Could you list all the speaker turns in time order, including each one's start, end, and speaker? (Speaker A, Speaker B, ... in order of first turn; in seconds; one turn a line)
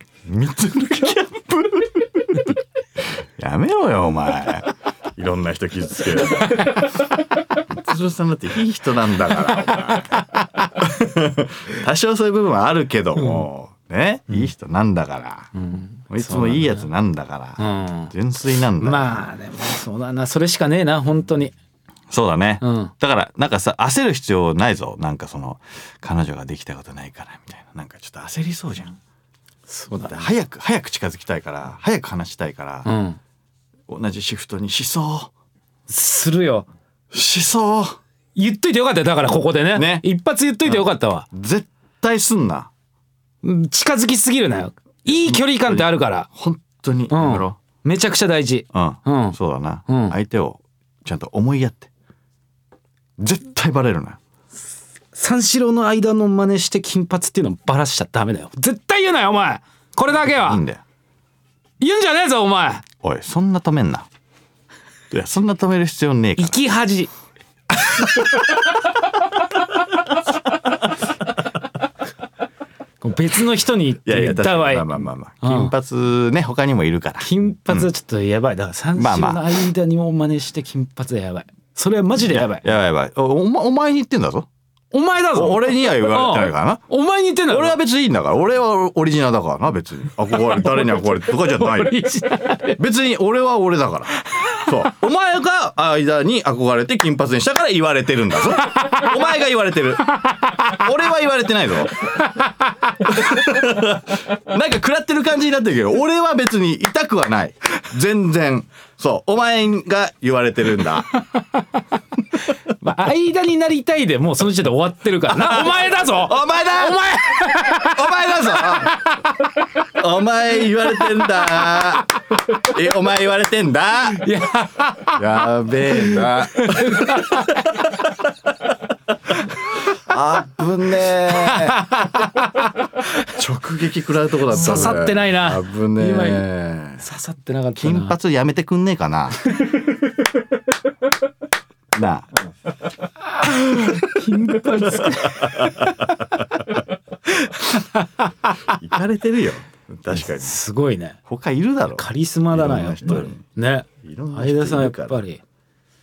Speaker A: 0.2-15.5
Speaker B: 10.1-10.7
Speaker B: 15.5-16.9
Speaker A: 16.1-19.2
Speaker B: 17.6-18.1
Speaker B: 18.8-21.5
Speaker A: 22.1-29.0
Speaker B: 22.6-22.9
Speaker B: 29.7-30.3
Speaker A: 29.9-32.9
Speaker B: 32.8-33.2
Speaker A: 33.9-35.3
Speaker B: 35.9-36.7
Speaker A: 37.1-38.0
Speaker B: 38.3-41.3
Speaker A: 39.7-40.1
Speaker A: 40.6-42.7
Speaker B: 43.4-46.3
Speaker A: 45.1-47.6
Speaker B: 47.1-50.1
Speaker A: 48.7-51.9
Speaker A: 53.2-54.2
Speaker B: 55.1-60.6
Speaker A: 60.3-60.8
Speaker B: 61.8-62.8
Speaker A: 63.0-64.1
Speaker A: 65.1-66.6
Speaker B: 66.4-67.1
Speaker A: 67.8-68.5
Speaker B: 73.0-74.9
Speaker A: 74.0-77.9
Speaker B: 75.4-75.7
Speaker B: 77.2-82.7
Speaker A: 79.0-79.4
Speaker A: 82.2-84.5
Speaker B: 84.9-87.8
Speaker A: 85.3-86.8
Speaker A: 87.5-92.0
Speaker B: 91.5-92.8
Speaker A: 92.8-102.2
Speaker B: 94.3-94.7
Speaker B: 98.7-99.1
Speaker B: 100.4-100.7
Speaker A: 103.0-111.1
Speaker B: 112.7-119.7
Speaker A: 115.3-119.1
Speaker A: 119.8-124.3
Speaker B: 124.2-125.2
Speaker A: 125.1-128.3
Speaker B: 126.0-127.9
Speaker A: 129.7-131.9
Speaker B: 131.3-133.2
Speaker A: 133.2-137.0
Speaker B: 134.5-136.4
Speaker B: 137.0-138.2
Speaker A: 137.8-139.4
Speaker A: 141.9-142.3
Speaker A: 143.4-146.4
Speaker B: 143.4-146.2
Speaker B: 147.3-148.7
Speaker A: 148.6-150.6
Speaker B: 150.1-151.2
Speaker A: 151.2-153.4
Speaker B: 151.9-155.4
Speaker A: 154.0-155.2